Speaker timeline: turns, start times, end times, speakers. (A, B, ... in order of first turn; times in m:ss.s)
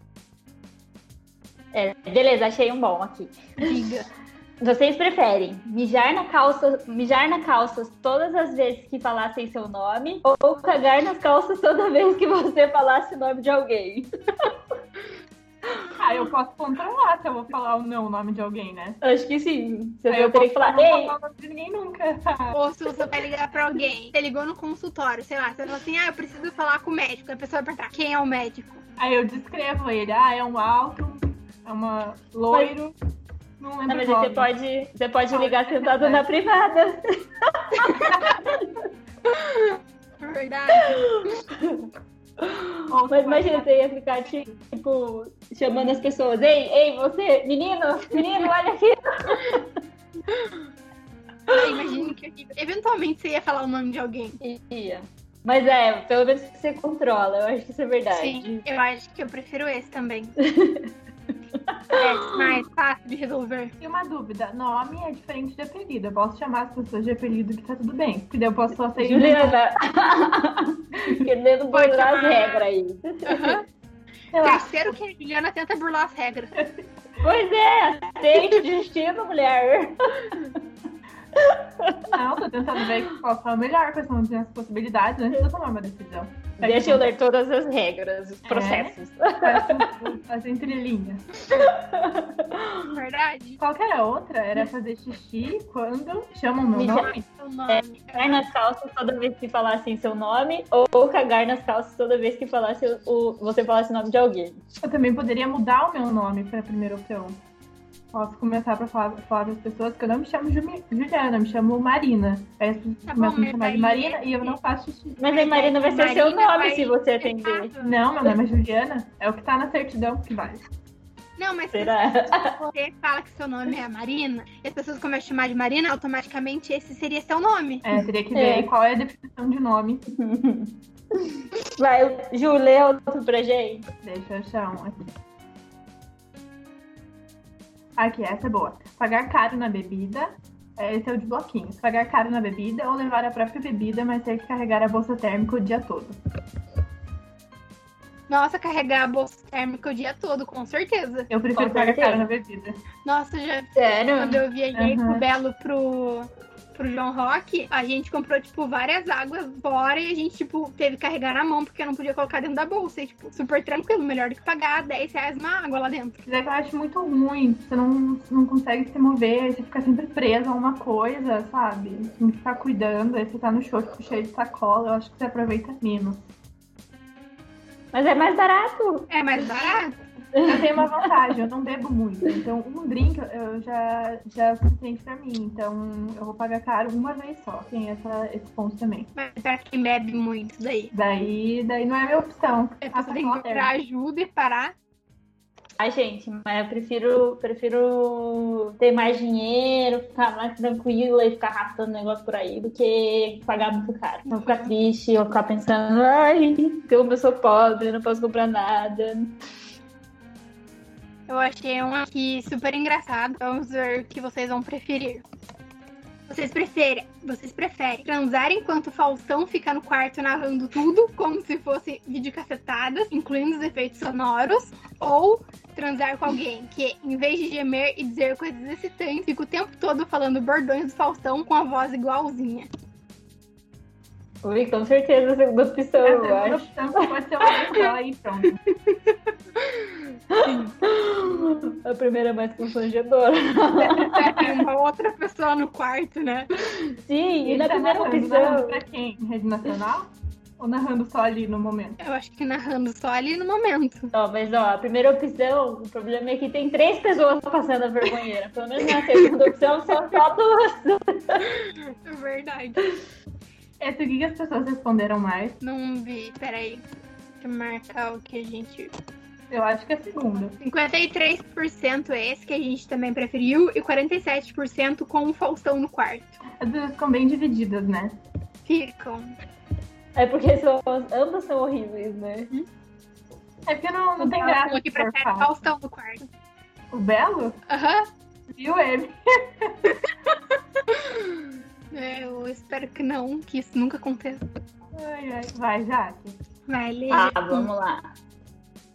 0:01.7-0:03.5 A
0:03.6-0:04.1 B
0:04.6-0:14.5 A
0:16.0-0:19.0 C
0:19.0-0:21.1 A
0:20.1-0:22.6 C
0:22.5-0:28.8 B
0:29.0-0:32.9 C
0:33.6-0:34.5 C
0:33.9-0:38.7 A
0:35.3-0:36.3 C
0:39.2-0:41.3 B
0:40.8-0:41.8 A
0:42.4-0:49.6 A
0:42.9-0:44.6 C
0:51.5-0:54.4 B
0:54.4-0:58.6 A
0:58.1-1:00.4 B
1:00.4-1:00.9 A
1:01.6-1:02.4 A
1:01.9-1:03.7 B
1:03.8-1:09.6 C
1:09.0-1:13.6 A
1:11.7-1:12.6 B
1:13.2-1:13.6 B
1:14.3-1:14.9 C
1:14.4-1:16.5 B
1:17.2-1:20.6 A
1:21.4-1:22.1 A
1:22.1-1:27.1 C
1:26.6-1:29.9 A
1:28.4-1:31.3 C
1:31.5-1:32.9 A
1:32.9-1:33.6 B
1:33.6-1:37.2 C
1:36.7-1:37.1 A
1:36.9-1:38.4 B
1:37.7-1:44.6 A
1:44.8-1:47.4 C
1:48.1-1:55.2 C
1:53.1-1:54.6 B
1:55.2-1:57.7 A
1:55.3-1:58.0 B
1:57.8-2:00.6 C
2:01.4-2:07.8 B
2:01.7-2:02.6 A
2:07.8-2:10.0 C
2:08.3-2:08.7 A
2:10.1-2:13.8 A
2:14.0-2:15.0 C
2:18.0-2:26.2 C
2:28.3-2:31.3 B
2:31.3-2:32.8 C
2:31.5-2:32.3 A
2:33.0-2:46.2 B
2:33.7-2:34.4 A
2:34.7-2:35.2 C
2:46.2-2:56.2 C
2:57.9-2:59.1 A
2:59.1-3:00.0 B
3:00.3-3:01.0 A
3:00.4-3:09.1 C
3:09.2-3:10.9 B
3:10.9-3:13.7 C
3:12.8-3:14.7 B
3:15.8-3:29.3 A
3:24.3-3:24.7 B
3:31.3-3:35.2 B
3:36.3-3:52.7 B
3:54.4-3:56.7 A
3:56.0-3:58.6 C
3:58.9-3:59.9 B
4:00.3-4:04.6 A
4:00.4-4:00.7 B
4:03.8-4:06.5 B
4:06.9-4:08.8 A
4:07.4-4:12.0 C
4:12.0-4:14.1 B
4:14.1-4:21.5 A
4:21.9-4:22.9 B
4:23.8-4:25.6 C
4:25.6-4:26.8 B
4:27.4-4:28.9 B
4:29.5-4:30.6 C
4:30.6-4:36.4 B
4:36.6-4:38.2 C
4:38.6-4:39.4 B
4:40.1-4:42.5 A
4:43.7-4:45.5 C
4:44.2-4:46.3 B
4:46.9-4:47.6 C
4:47.7-4:48.1 B
4:48.5-4:49.9 C
4:50.1-4:54.4 B
4:54.9-4:56.4 C
4:56.7-4:57.7 B
4:57.1-4:58.0 A